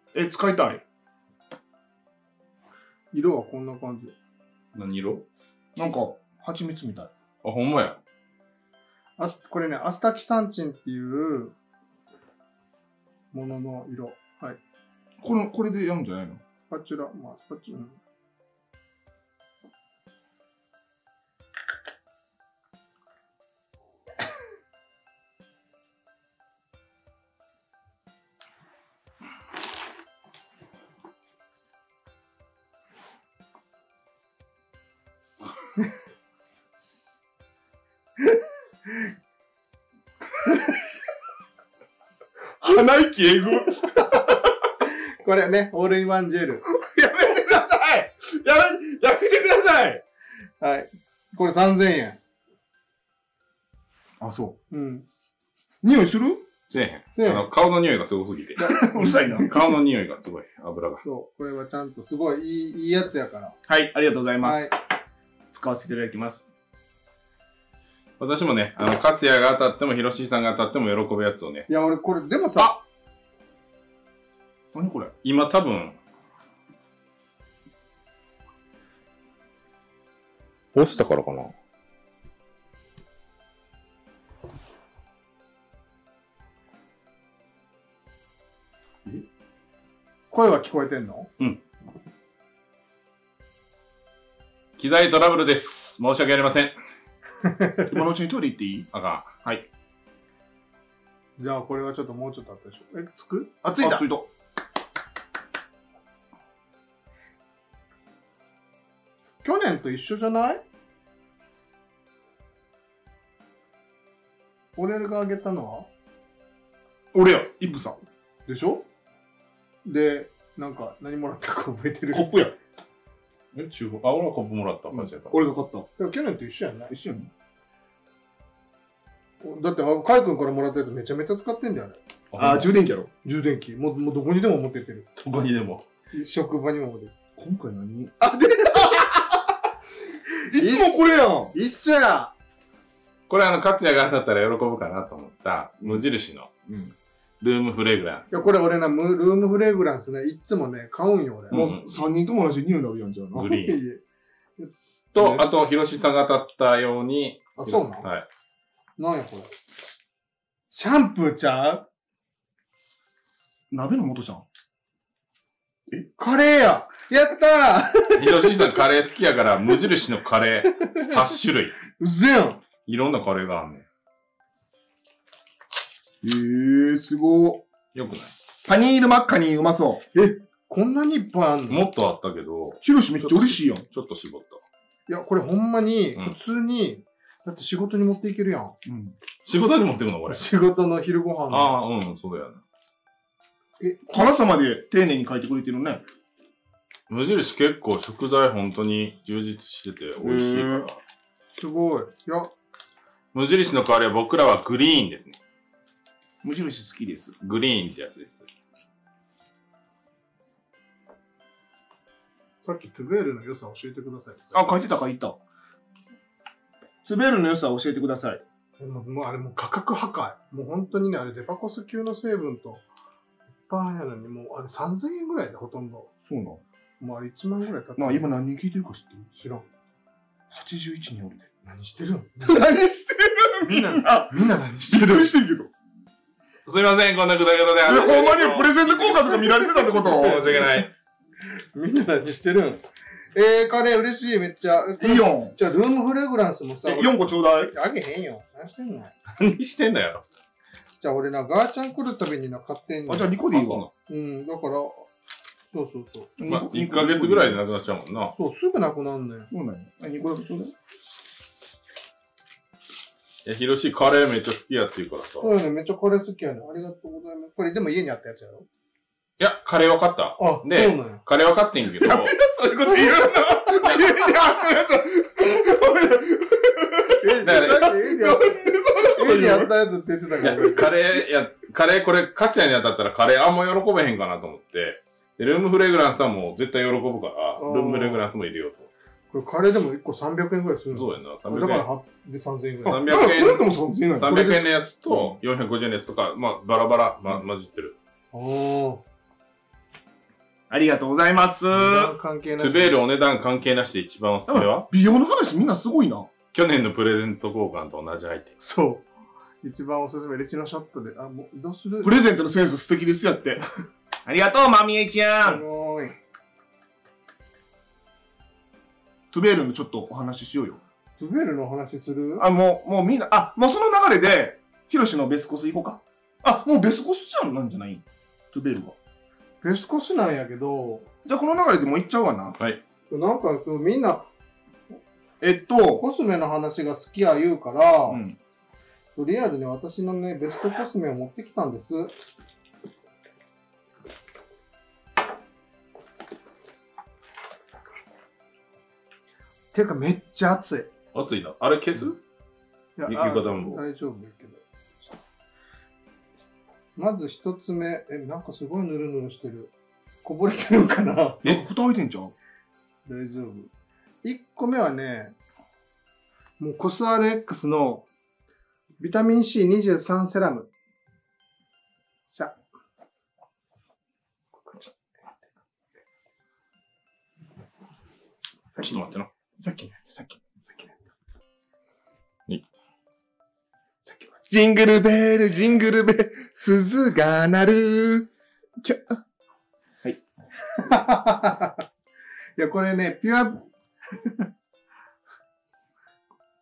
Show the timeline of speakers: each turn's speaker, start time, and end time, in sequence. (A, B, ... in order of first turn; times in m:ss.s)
0:00.1-0:00.8 A
0:03.1-0:04.1 B
0:04.7-0:05.2 C
0:05.8-0:07.1 A
0:07.4-0:08.0 C
0:09.2-0:11.5 B
0:13.3-0:14.6 B
0:15.2-0:16.4 A
0:16.7-0:18.0 B
0:42.6-0:44.3 A
0:45.2-0:46.6 B
0:46.7-0:50.0 A
0:50.6-0:52.2 B
0:54.2-0:54.6 A
0:54.7-0:55.0 B
0:55.8-0:56.5 A
0:56.7-1:01.0 C
0:57.1-0:57.4 B
0:58.6-0:59.7 A
1:01.0-1:03.6 B
1:03.7-1:04.7 A
1:04.4-1:04.7 B
1:05.5-1:06.6 A
1:08.2-1:11.7 C
1:11.7-1:12.8 B
1:14.7-1:15.1 A
1:15.2-1:16.0 C
1:20.7-1:21.5 C
1:30.3-1:31.3 B
1:34.8-1:36.7 C
1:37.4-1:37.8 B
1:37.9-1:38.9 A
1:38.9-1:39.3 C
1:41.4-1:44.0 B
1:43.8-1:44.3 A
1:49.4-1:50.6 B
1:54.8-1:55.9 B
1:57.1-1:58.0 A
1:58.5-1:58.9 B
1:59.8-2:02.3 B
2:02.1-2:02.5 A
2:03.5-2:05.4 C
2:04.9-2:05.9 A
2:06.0-2:06.9 B
2:06.9-2:07.3 A
2:09.4-2:12.0 B
2:12.3-2:12.7 C
2:12.4-2:13.1 A
2:13.2-2:15.1 B
2:15.2-2:15.8 C
2:16.1-2:17.1 B
2:17.4-2:19.3 A
2:20.5-2:21.5 A
2:20.5-2:22.3 B
2:23.3-2:26.5 C
2:26.6-2:26.9 A
2:27.4-2:28.5 C
2:28.3-2:31.7 B
2:31.5-2:31.9 C
2:31.5-2:33.5 A
2:33.3-2:34.0 B
2:33.3-2:33.8 C
2:34.6-2:35.4 B
2:35.1-2:38.2 C
2:37.6-2:38.1 B
2:39.0-2:39.5 B
2:40.7-2:41.9 B
2:43.7-2:44.4 A
2:46.2-2:48.6 B
2:48.2-2:51.8 C
2:50.8-2:51.3 B
2:51.9-2:52.6 B
2:52.8-2:53.8 C
2:56.2-2:57.6 A
2:57.9-2:58.3 C
2:58.6-3:00.0 A
3:00.1-3:01.8 B
3:01.7-3:04.6 C
3:02.8-3:03.8 A
3:05.1-3:08.8 B
3:08.8-3:09.1 A
3:09.4-3:10.4 C
3:10.3-3:11.7 B
3:11.5-3:12.6 C
3:13.8-3:14.3 B
3:14.1-3:16.0 A
3:17.1-3:21.0 C
3:20.2-3:20.9 A
3:21.6-3:22.5 B
3:23.3-3:25.4 C
3:26.4-3:27.4 A
3:27.4-3:28.5 C
3:32.6-3:34.7 B
3:34.5-3:35.4 A
3:37.0-3:38.4 A
3:38.8-3:42.8 B
3:43.7-3:46.1 B
3:46.2-3:46.6 A
3:47.0-3:48.3 B
3:48.0-3:49.3 A
3:49.3-3:49.7 B
3:50.5-3:51.5 A
3:51.6-3:52.7 B
3:52.4-3:55.7 A
3:53.6-3:55.3 B
3:56.6-4:00.9 C
3:57.8-4:00.5 A
4:00.1-4:00.8 B
4:01.7-4:02.8 B
4:03.3-4:09.1 B
4:05.0-4:05.5 A
4:06.8-4:07.7 A
4:09.4-4:10.2 C
4:11.0-4:13.3 B
4:13.1-4:13.8 A
4:13.5-4:13.9 C
4:14.1-4:15.1 B
4:15.7-4:16.3 B
4:16.4-4:17.6 A
4:16.5-4:18.3 C
4:18.4-4:19.5 B
4:19.5-4:20.7 A
4:23.4-4:25.5 C
4:25.4-4:28.7 B
4:29.4-4:32.4 C
4:30.4-4:31.2 B
4:31.9-4:39.7 A
4:37.2-4:38.5 B
4:37.4-4:37.9 C
4:39.2-4:40.9 B
4:40.4-4:48.9 C
4:47.6-4:48.2 B
4:49.3-4:53.0 B
4:50.9-4:51.8 C
4:52.8-4:58.0 C
4:52.8-4:54.3 A
4:54.2-4:55.4 B
4:58.3-4:59.0 B
5:00.7-5:02.1 A
5:01.7-5:03.0 B
5:02.6-5:04.9 C
5:04.5-5:06.3 A
5:06.5-5:08.5 C
5:08.6-5:09.1 B
5:09.6-5:12.2 B
5:12.0-5:13.6 A
5:14.2-5:15.6 A
5:15.4-5:16.1 B
5:19.3-5:20.8 A
5:21.2-5:22.4 B
5:22.4-5:29.0 A
5:29.6-5:31.1 B
5:31.2-5:32.6 A
5:33.1-5:34.3 B
5:35.4-5:36.0 A
5:36.0-5:38.2 B
5:38.1-5:38.4 A
5:39.2-5:42.1 B
5:49.7-5:50.9 B
5:51.1-5:52.2 C
5:53.0-5:54.6 B
5:53.1-5:53.8 C
5:57.0-5:59.7 B
6:00.2-6:01.4 B
6:01.4-6:02.3 A
6:03.0-6:03.7 B
6:04.2-6:05.4 B
6:06.6-6:08.1 B
6:09.0-6:10.7 B
6:14.6-6:15.1 B
6:18.7-6:21.0 B
6:18.8-6:19.3 C
6:24.0-6:24.4 B
6:24.5-6:28.3 A
6:28.8-6:29.2 A
6:30.8-6:31.8 B
6:32.6-6:33.6 B